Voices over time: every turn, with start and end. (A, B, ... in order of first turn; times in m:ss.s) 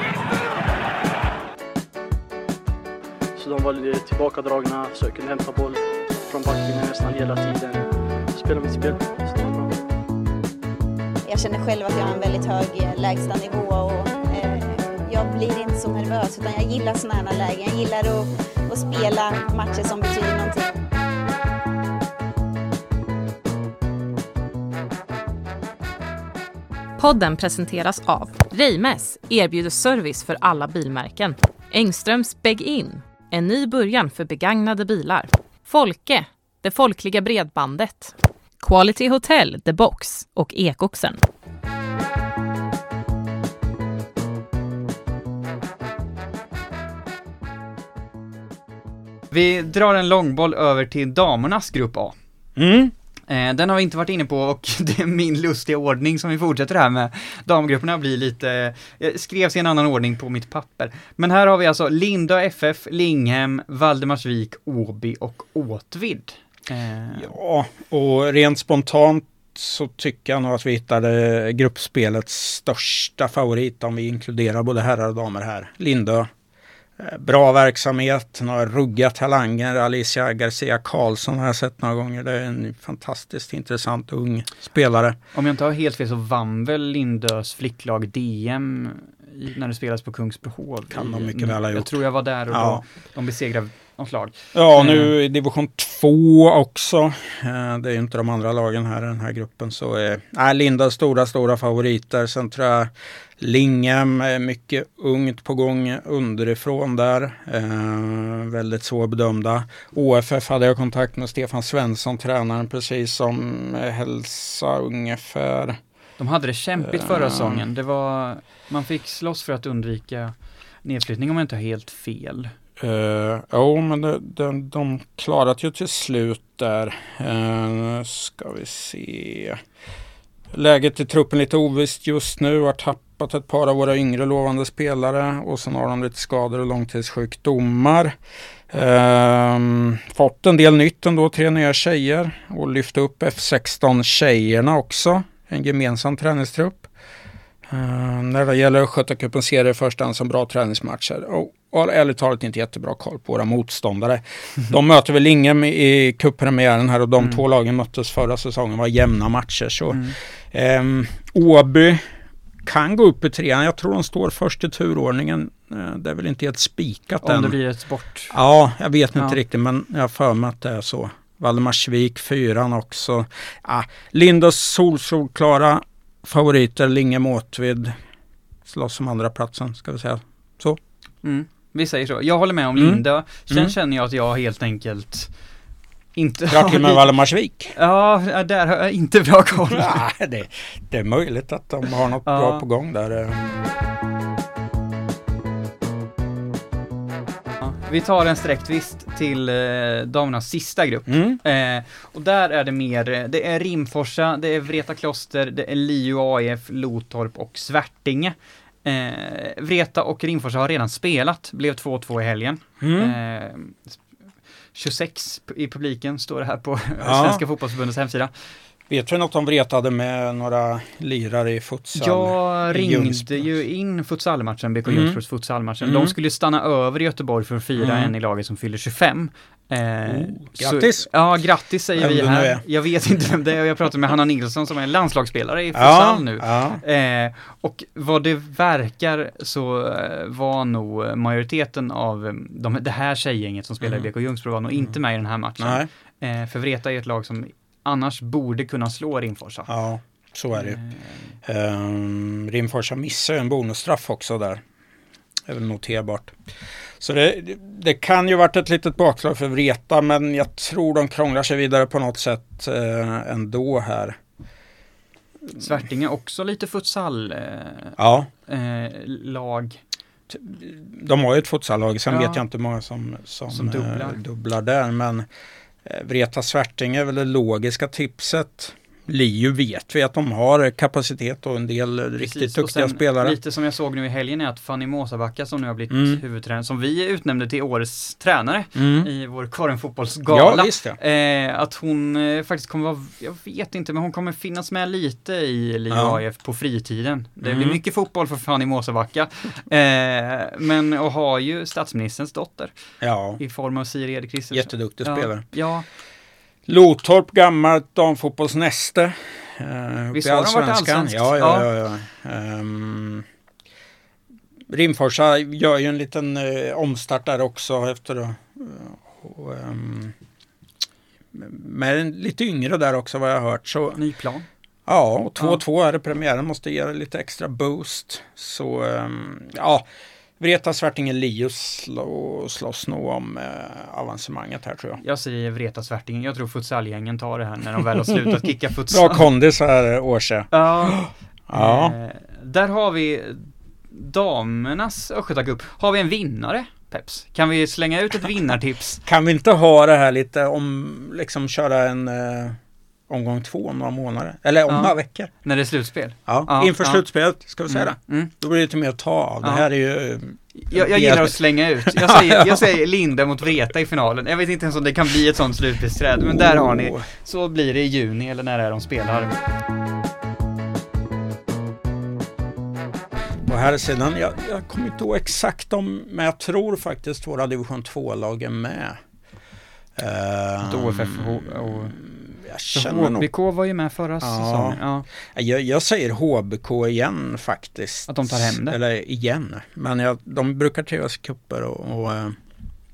0:03.3-0:09.8 A
0:11.2-0:20.7 B
0:27.0-0:38.0 C
0:38.6-0:41.2 C
0:49.3-0:52.1 D
0:52.6-0:52.9 E
0:53.3-1:07.3 D
1:07.1-1:16.3 E
1:17.0-1:25.2 E
1:25.3-1:35.1 D
1:30.9-1:32.8 E
1:34.5-1:55.8 E
1:56.2-2:02.5 D
1:56.8-1:57.7 E
2:02.8-2:09.6 E
2:10.5-2:18.1 E
2:18.7-2:26.8 E
2:27.7-2:42.0 E
2:42.6-2:47.6 E
2:47.2-2:48.4 D
2:48.3-2:57.9 E
2:49.1-2:49.4 D
2:58.6-3:00.8 E
3:01.2-3:05.3 D
3:02.7-3:03.7 E
3:06.1-3:07.1 D
3:06.5-3:07.7 E
3:07.7-3:10.0 D
3:09.7-3:13.6 E
3:12.2-3:12.6 D
3:17.6-3:34.0 D
3:21.1-3:21.4 E
3:32.8-3:33.2 E
3:34.7-3:38.3 D
3:37.0-3:37.4 E
3:38.9-3:43.6 E
3:41.9-4:09.7 D
3:44.8-3:45.2 E
3:45.8-3:46.1 E
3:47.8-3:48.1 E
3:50.0-3:51.1 E
3:52.0-3:52.6 E
3:55.7-3:56.8 E
4:03.8-4:04.1 E
4:05.6-4:05.9 E
4:09.7-4:10.8 E
4:10.5-4:11.0 D
4:11.4-4:14.6 E
4:15.5-4:16.4 E
4:17.0-4:24.2 E
4:25.5-4:29.8 D
4:28.0-4:28.3 E
4:30.3-4:35.2 E
4:32.1-4:32.4 D
4:33.5-4:34.2 D
4:35.8-4:43.4 E
4:42.2-5:02.7 D
4:45.9-4:46.2 E
4:48.8-4:49.1 E
4:50.3-4:51.0 E
4:55.9-4:56.2 E
4:57.4-4:57.8 E
5:03.0-5:03.4 E
5:03.4-5:05.8 D
5:04.5-5:05.4 E
5:06.7-5:13.2 E
5:10.1-5:11.7 D
5:14.7-5:20.1 E
5:21.3-5:24.0 E
5:23.9-5:24.4 D
5:24.9-5:29.8 E
5:30.4-5:35.0 E
5:35.0-5:39.2 D
5:38.9-5:42.0 E
5:40.5-5:49.0 D
5:49.0-5:52.6 E
5:53.1-5:55.3 E
5:54.7-5:57.0 D
5:56.3-6:02.7 E
5:57.7-5:58.3 D
6:00.5-6:09.4 D
6:06.3-6:07.0 E
6:13.4-6:19.0 E
6:20.0-6:23.3 E
6:20.6-6:22.0 D
6:22.7-6:25.1 D
6:24.2-6:32.3 E
6:28.1-6:28.8 D